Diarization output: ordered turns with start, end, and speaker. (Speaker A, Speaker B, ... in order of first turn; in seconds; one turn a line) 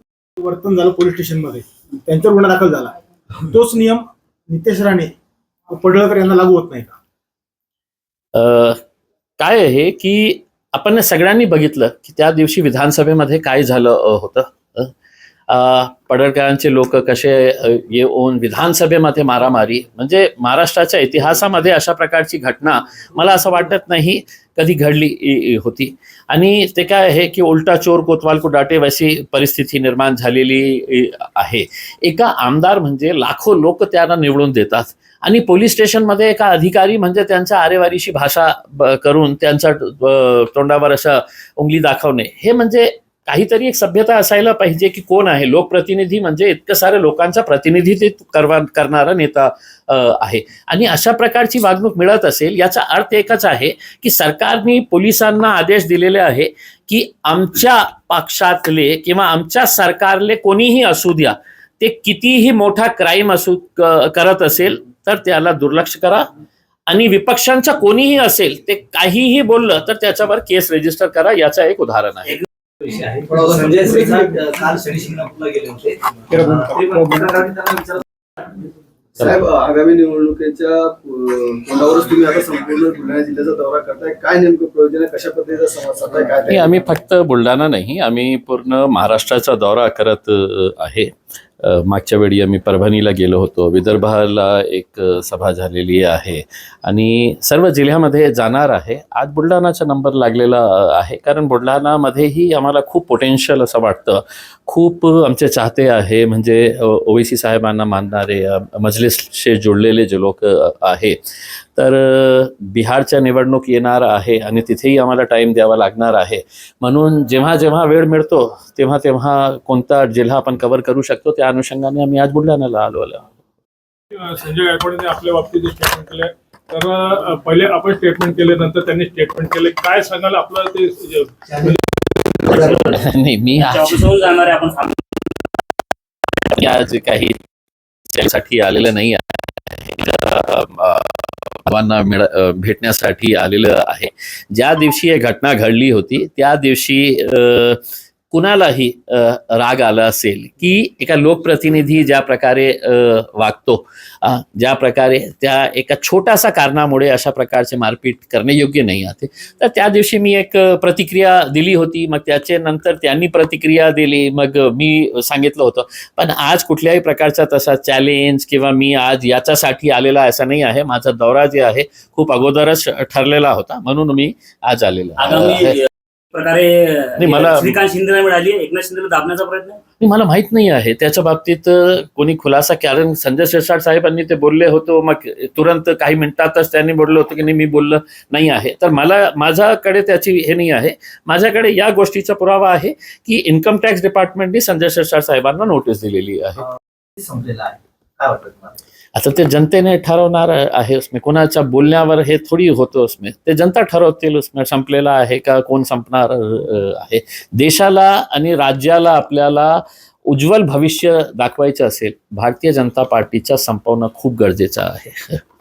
Speaker A: 0.4-3.0
Speaker A: 3.5-5.1
Speaker A: 5.7-7.0
Speaker B: 8.3-8.8
Speaker B: 9.4-14.9
Speaker B: 15.5-66.2
Speaker B: 66.9-72.4
Speaker C: 72.8-78.0
Speaker A: 73.8-74.4
Speaker A: 76.3-77.4
Speaker D: 79.2-86.7
Speaker B: 86.5-111.2
Speaker B: 111.8-123.2
Speaker E: 124.1-131.8
Speaker C: 131.5-131.7
Speaker C: 132.4-132.8
Speaker F: 132.5-133.0
Speaker B: 132.8-134.0
Speaker F: 133.6-134.9
Speaker B: 136.5-137.3
Speaker B: 138.1-147.8
Speaker B: 148.3-175.8
Speaker F: 175.2-179.8
Speaker B: 177.2-177.8
Speaker B: 180.0-196.7
Speaker C: 197.2-198.8
Speaker B: 199.1-215.4